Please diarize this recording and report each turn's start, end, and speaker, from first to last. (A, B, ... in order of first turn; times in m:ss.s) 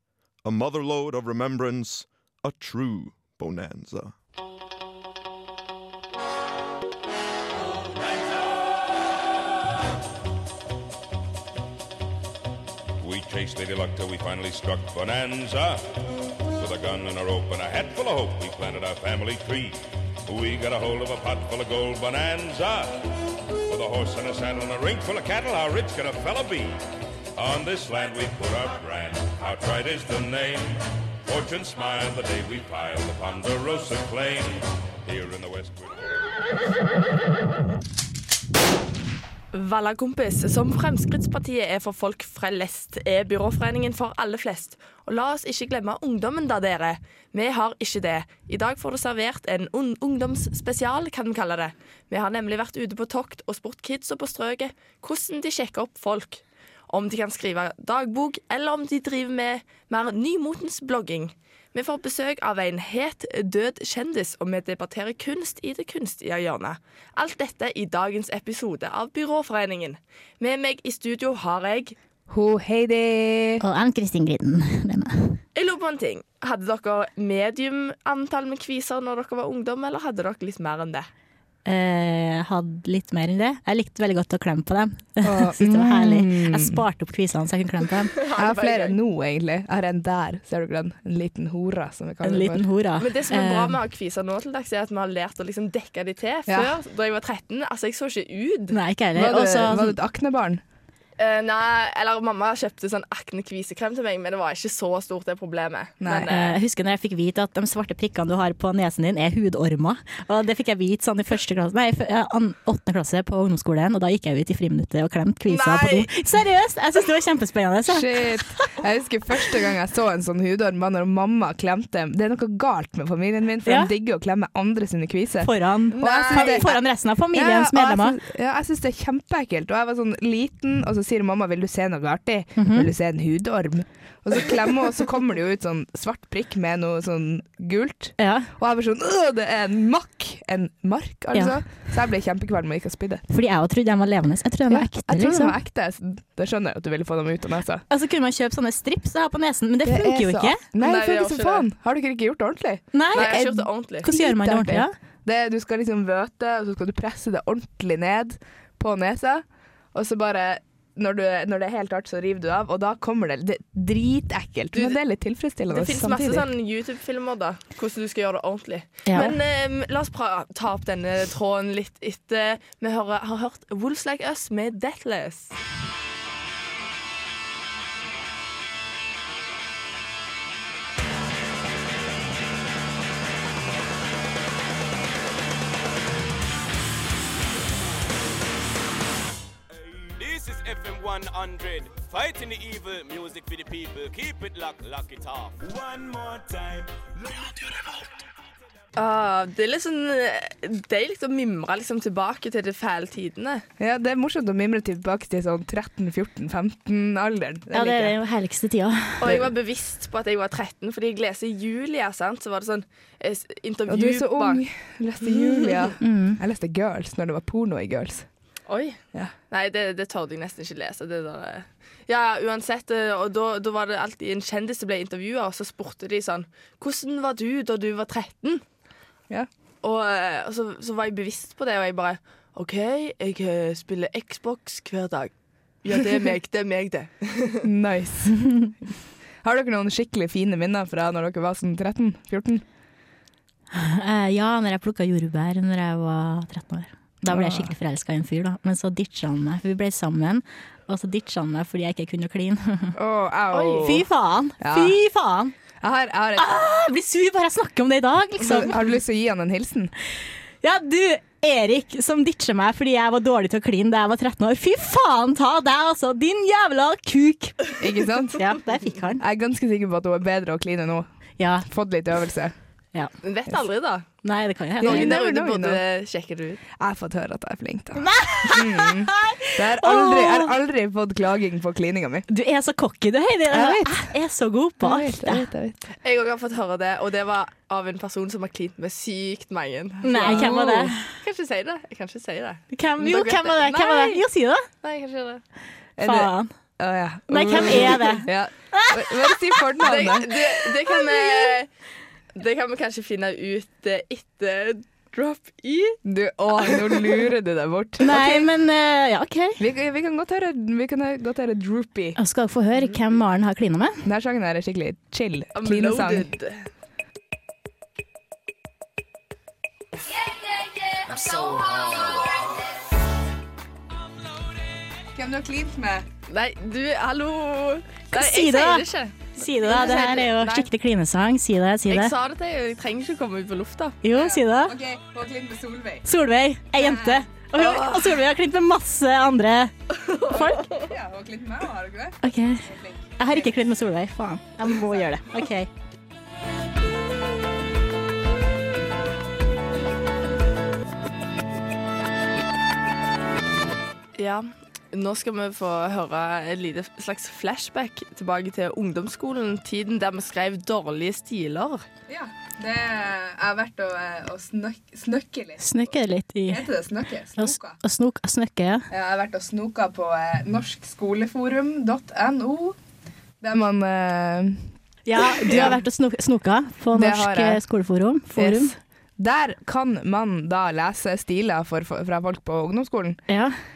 0:00.4-0:04.1 A
0:13.0-0:15.9 B
0:16.5-0:23.0 B
0:23.7-0:26.8 B
0:27.4-0:36.0 B
0:39.5-1:12.0 C
1:12.3-1:13.6 D
1:13.6-1:15.4 E
1:15.5-1:21.1 C
1:21.6-1:28.1 E
1:25.2-1:26.8 D
1:28.2-1:29.0 C
1:28.2-1:32.7 D
1:32.2-1:33.7 E
1:33.0-1:38.8 C
1:36.5-1:36.7 D
1:38.7-1:40.0 E
1:39.1-1:40.6 D
1:41.2-1:46.5 C
1:46.0-1:46.4 D
1:46.3-1:58.1 E
1:55.5-1:56.1 C
1:57.9-2:06.8 D
2:03.6-2:03.9 E
2:05.4-2:08.2 E
2:06.0-2:06.7 C
2:07.3-2:23.2 D
2:12.6-2:12.9 E
2:18.2-2:18.5 E
2:23.3-2:25.6 E
2:24.7-2:27.8 D
2:27.9-2:30.6 E
2:29.8-2:46.4 D
2:30.8-2:31.7 C
2:32.9-2:33.4 E
2:33.1-2:34.0 C
2:34.0-2:34.9 E
2:44.7-2:45.0 C
2:45.7-2:55.5 C
3:09.7-3:15.6 F
3:19.0-3:23.6 C
3:23.8-3:28.1 D
3:27.7-3:29.2 E
3:29.2-3:34.6 C
3:29.2-3:29.5 D
3:33.9-3:38.3 D
3:35.2-3:35.9 C
3:36.0-3:36.4 E
3:38.7-3:39.0 C
3:39.5-3:48.6 C
3:49.8-3:55.3 C
3:55.8-3:57.6 C
3:57.6-3:58.7 D
3:59.4-4:02.6 D
4:03.7-4:13.0 E
4:07.3-4:07.7 D
4:13.0-4:14.0 D
4:13.5-4:14.0 C
4:13.8-4:15.5 E
4:14.6-4:15.0 D
4:15.8-4:16.4 D
4:16.4-4:18.7 E
4:18.5-4:19.9 D
4:20.6-4:27.8 E
4:27.8-4:28.6 D
4:28.3-4:29.2 E
4:29.2-4:31.1 D
4:31.4-4:31.7 E
4:31.7-4:32.5 D
4:33.2-4:34.0 C
4:34.2-4:35.2 E
4:34.8-4:35.8 D
4:34.8-4:36.6 C
4:36.8-4:42.2 D
4:38.0-4:40.6 E
4:42.3-4:45.5 E
4:43.5-4:44.1 D
4:44.8-4:45.8 D
4:46.0-4:54.2 C
4:50.0-4:51.0 E
4:50.2-4:50.8 D
4:52.7-4:54.6 E
4:54.8-4:55.4 C
4:56.0-5:00.4 D
4:56.0-4:56.5 E
4:57.3-4:59.8 E
4:59.8-5:01.7 C
5:00.9-5:01.5 D
5:02.3-5:06.0 C
5:06.0-5:08.5 D
5:06.6-5:07.2 C
5:08.0-5:09.6 E
5:09.6-5:12.2 D
5:12.2-5:14.0 E
5:14.0-5:16.3 D
5:15.5-5:16.6 C
5:25.1-5:26.0 D
5:26.3-5:30.7 C
5:28.1-5:28.8 E
5:29.4-5:32.1 E
5:31.9-5:34.0 C
5:34.0-5:34.7 E
5:34.1-5:36.0 D
5:36.0-5:40.7 E
5:36.8-5:37.2 D
5:37.6-5:38.1 C
5:40.1-5:40.7 C
5:40.3-5:43.5 D
5:42.2-5:42.6 E
5:43.2-5:45.7 E
5:54.2-6:01.8 C
6:02.1-6:05.6 D
6:05.6-6:06.6 E
6:06.5-6:07.8 D
6:07.4-6:08.8 E
6:08.9-6:12.8 D
6:13.4-6:14.6 D
6:15.1-6:18.7 E
6:15.2-6:15.8 D
6:16.9-6:17.6 D
6:18.4-6:23.2 D
6:23.3-6:23.6 E